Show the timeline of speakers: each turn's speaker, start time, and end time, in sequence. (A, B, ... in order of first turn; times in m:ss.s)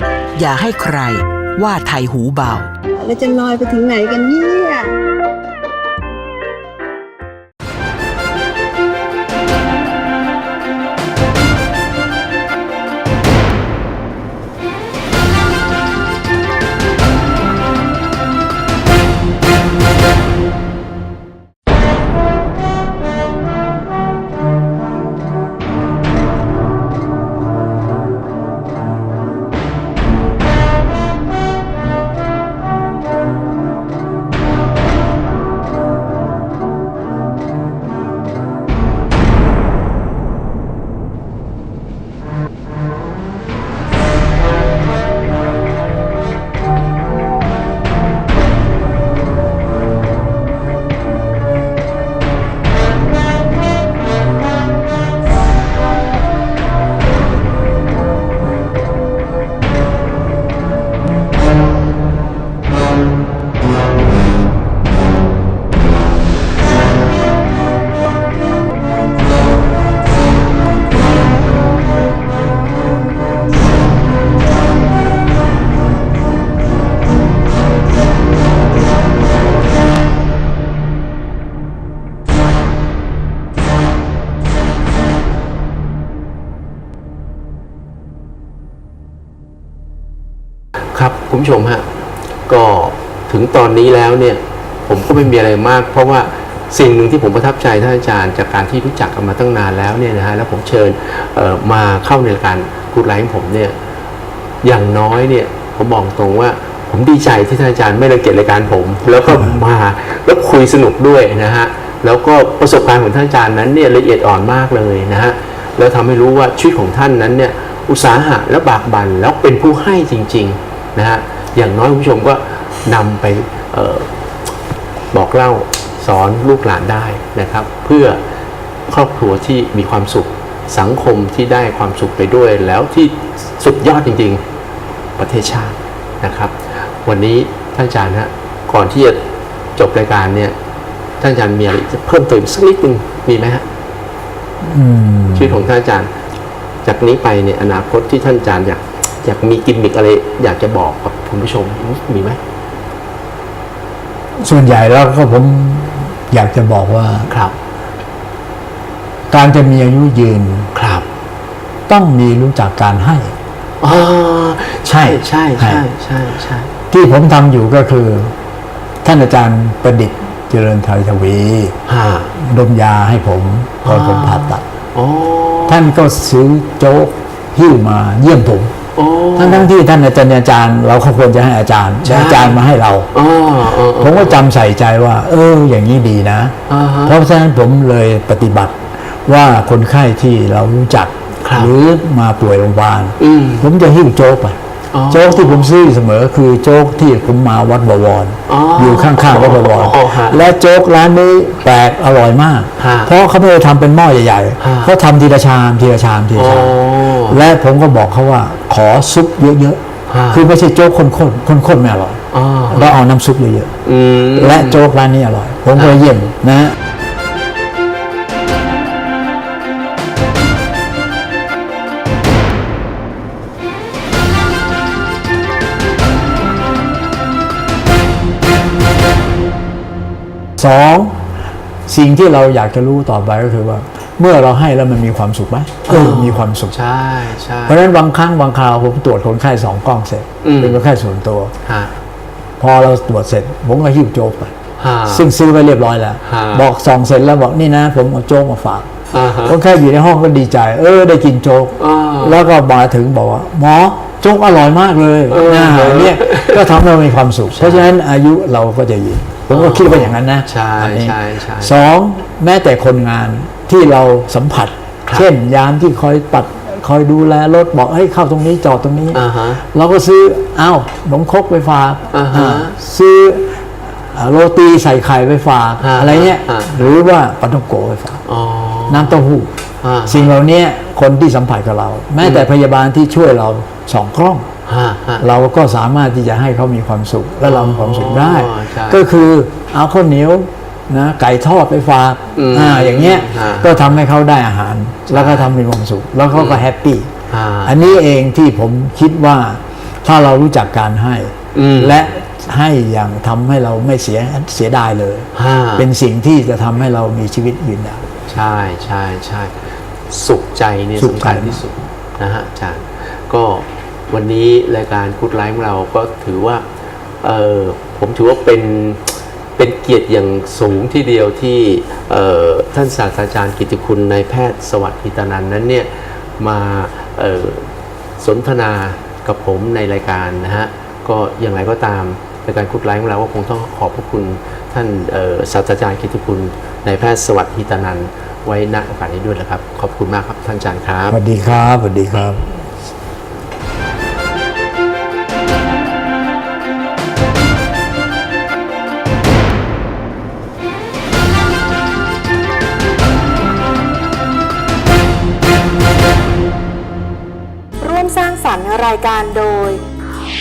0:00.4-0:02.7 A
0:03.0-0:04.9 B
1:31.0-1:31.9 C
1:32.5-1:43.8 C
1:44.6-2:04.5 C
2:05.1-2:08.2 C
2:08.9-2:14.4 C
2:15.2-2:19.2 C
2:19.8-2:20.6 C
2:21.2-2:23.6 C
2:24.6-2:25.6 D
2:25.4-2:26.1 C
2:26.8-2:32.4 C
2:34.4-2:37.3 D
2:37.3-2:37.6 C
2:39.3-2:40.7 D
2:40.8-2:41.0 C
2:41.9-2:43.4 D
2:43.8-2:46.7 C
2:44.9-2:45.8 D
2:46.9-2:48.4 D
2:49.0-2:51.8 D
2:51.9-2:52.3 C
2:52.4-2:54.6 D
2:53.8-2:55.9 C
2:55.7-2:58.8 D
2:59.0-2:59.7 C
2:59.4-3:03.1 D
3:02.0-3:02.6 C
3:03.1-3:04.4 C
3:04.0-3:33.8 D
3:06.7-3:07.2 C
3:11.4-3:11.7 C
3:13.2-3:13.7 C
3:14.9-3:15.7 C
3:18.5-3:20.4 C
3:22.8-3:23.1 C
3:24.6-3:24.9 C
3:26.4-3:27.4 C
3:30.1-3:30.4 C
3:32.3-3:33.0 C
3:33.9-3:34.8 C
3:34.3-3:36.8 D
3:35.8-3:36.0 C
3:50.6-3:51.3 D
3:51.9-3:56.8 D
3:55.9-3:57.8 C
3:57.7-4:01.5 D
4:00.4-4:00.8 C
4:01.6-4:02.0 C
4:02.6-4:04.5 D
4:04.8-4:05.3 C
4:05.1-4:08.9 D
4:06.3-4:06.7 C
4:09.1-4:09.6 C
4:09.4-4:38.2 D
4:11.8-4:12.4 C
4:15.3-4:16.8 C
4:17.5-4:17.9 C
4:19.5-4:21.8 C
4:29.1-4:29.6 C
4:32.1-4:32.7 C
4:35.8-4:36.8 C
4:38.3-4:39.2 C
4:38.9-4:39.5 D
4:39.8-4:40.3 C
4:40.1-4:44.5 D
4:42.2-4:42.5 C
4:44.7-4:45.3 C
4:45.2-4:57.1 D
4:47.4-4:49.1 C
4:52.4-4:54.0 C
4:55.1-4:55.5 C
4:56.3-4:56.7 C
4:57.3-4:57.8 C
4:57.6-5:08.0 D
5:01.6-5:02.0 C
5:05.4-5:05.9 C
5:08.3-5:16.6 C
5:11.0-5:11.6 D
5:17.2-5:41.2 C
5:41.1-5:42.9 D
5:57.8-5:59.8 E